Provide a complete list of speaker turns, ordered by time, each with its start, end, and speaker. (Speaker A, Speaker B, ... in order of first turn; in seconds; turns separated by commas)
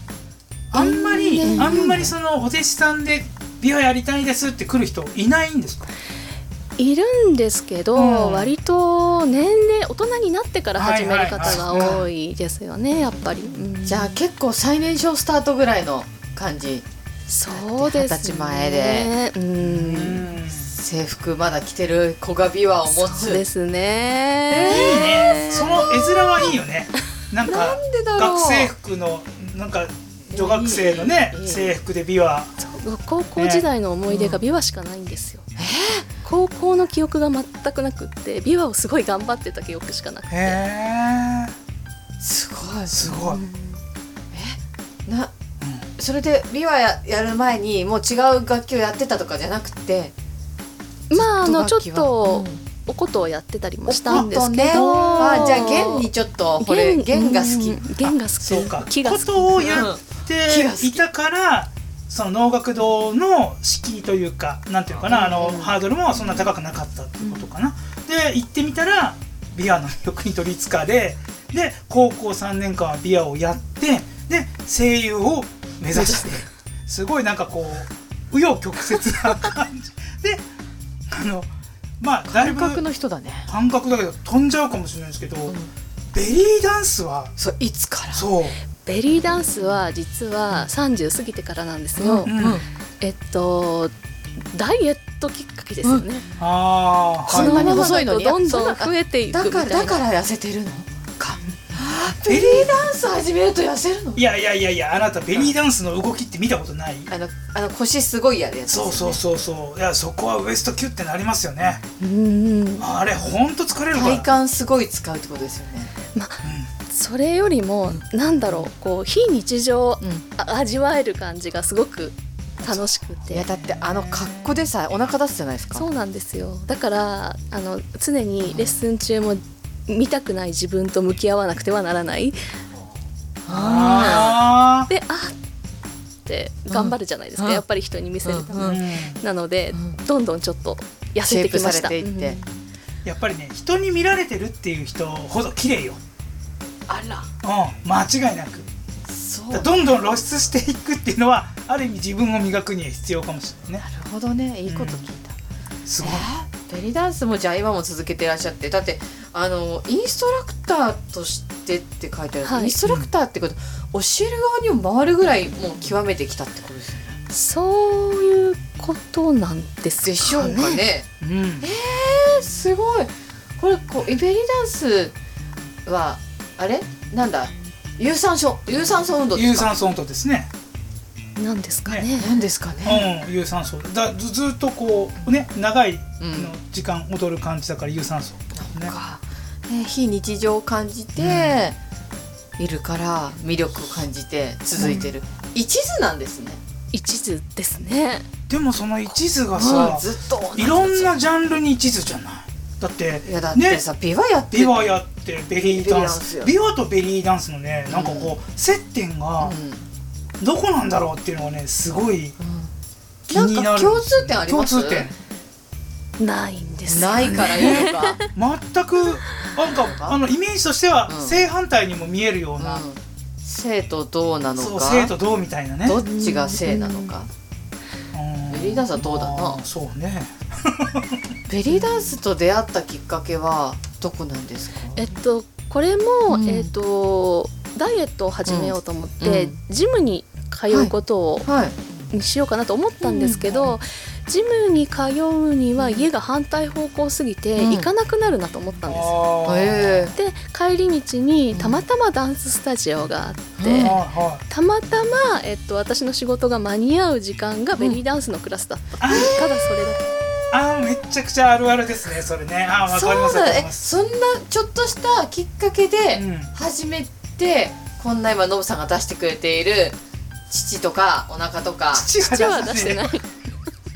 Speaker A: 0.7-5.9, Speaker B: 0.8-2.0, Speaker C: 1.4-2.1, Speaker B: 6.8-14.2, Speaker A: 7.9-8.5, Speaker A: 10.8-12.0, Speaker C: 11.4-12.1, Speaker C: 13.8-16.8, Speaker B: 17.3-20.3, Speaker C: 17.5-19.1, Speaker A: 19.6-20.7, Speaker C: 20.6-23.4, Speaker B: 22.9-25.9, Speaker C: 24.5-26.6, Speaker A: 24.6-32.5, Speaker C: 27.4-28.7, Speaker C: 30.3-31.8, Speaker B: 32.6-35.5, Speaker A: 33.4-33.6, Speaker C: 34.1-34.4, Speaker C: 35.6-36.1, Speaker B: 36.2-40.6, Speaker A: 40.3-41.5, Speaker C: 42.2-43.0, Speaker A: 42.9-43.4, Speaker B: 43.1-43.8, Speaker C: 44.3-45.3, Speaker A: 45.6-45.9, Speaker C: 46.0-50.1, Speaker B: 51.1-59.7, Speaker C: 51.1-52.6, Speaker C: 53.9-57.9, Speaker A: 58.0-80.5, Speaker C: 59.6-61.0, Speaker C: 65.1-65.8, Speaker C: 75.9-76.4, Speaker A: 81.1-82.8, Speaker C: 82.3-83.5, Speaker A: 83.5-85.6, Speaker A: 86.1-87.3, Speaker C: 87.4-88.3, Speaker A: 88.1-88.6, Speaker B: 88.8-92.3, Speaker C: 92.0-92.7, Speaker A: 92.3-92.6, Speaker B: 93.0-93.9, Speaker B: 94.5-96.3, Speaker A: 96.4-97.8, Speaker B: 97.3-100.0, Speaker C: 97.3-104.2, Speaker A: 102.2-102.8, Speaker A: 104.2-107.1, Speaker C: 107.1-109.2, Speaker A: 108.7-111.8, Speaker B: 112.0-112.9, Speaker A: 112.8-114.3, Speaker C: 113.9-115.9, Speaker B: 116.2-123.5, Speaker A: 116.4-116.7, Speaker C: 117.9-118.7, Speaker A: 122.6-122.9, Speaker C: 123.3-125.8, Speaker A: 123.5-124.6, Speaker B: 125.8-132.4, Speaker C: 133.4-134.4, Speaker A: 133.5-134.9, Speaker B: 134.9-135.4, Speaker B: 136.3-142.4, Speaker C: 136.7-137.6, Speaker C: 138.2-138.8, Speaker A: 138.6-139.2, Speaker C: 141.2-142.4, Speaker A: 143.0-146.0, Speaker C: 146.9-147.3, Speaker A: 147.4-148.7, Speaker C: 149.1-149.8, Speaker A: 149.5-153.8, Speaker C: 153.8-155.4, Speaker A: 154.7-155.1, Speaker A: 155.9-156.3, Speaker C: 156.0-167.1, Speaker B: 162.4-162.7, Speaker B: 167.3-170.8, Speaker C: 170.0-171.1, Speaker A: 171.2-171.7, Speaker C: 171.6-175.1, Speaker C: 175.9-179.7, Speaker A: 179.3-180.5, Speaker B: 181.4-182.3, Speaker C: 182.2-183.1, Speaker A: 182.8-188.9, Speaker C: 186.2-186.5, Speaker C: 188.6-191.8, Speaker A: 191.2-191.6, Speaker C: 192.6-196.6, Speaker B: 196.9-198.3, Speaker A: 198.5-203.8, Speaker C: 199.6-201.2, Speaker C: 203.3-204.9, Speaker A: 204.5-209.6, Speaker C: 205.6-206.5, Speaker C: 207.9-208.4, Speaker C: 209.4-209.9, Speaker A: 210.4-212.3, Speaker C: 212.4-212.7, Speaker C: 213.3-215.1, Speaker A: 213.3-215.1, Speaker B: 216.2-218.3, Speaker C: 216.9-218.2, Speaker A: 217.3-222.9, Speaker C: 219.5-220.2, Speaker C: 221.1-221.4, Speaker C: 222.6-225.1, Speaker A: 224.6-226.0, Speaker C: 225.8-227.3, Speaker B: 226.1-227.1, Speaker A: 228.1-231.3, Speaker C: 228.5-229.6, Speaker C: 231.5-235.1, Speaker B: 234.9-241.5, Speaker C: 236.3-236.7, Speaker C: 238.5-239.6, Speaker C: 241.4-241.8, Speaker B: 242.1-249.1, Speaker C: 243.0-243.8, Speaker C: 245.8-246.1, Speaker C: 247.6-247.9, Speaker A: 248.9-250.1, Speaker C: 249.4-250.2, Speaker B: 250.2-253.9, Speaker C: 251.5-251.8, Speaker C: 253.6-254.0, Speaker A: 253.8-254.4, Speaker B: 254.5-260.1, Speaker A: 259.0-259.4, Speaker C: 259.1-260.5, Speaker A: 260.5-263.9, Speaker C: 262.9-270.0, Speaker A: 266.1-266.5, Speaker C: 270.5-272.1, Speaker A: 271.9-273.1, Speaker B: 272.2-273.3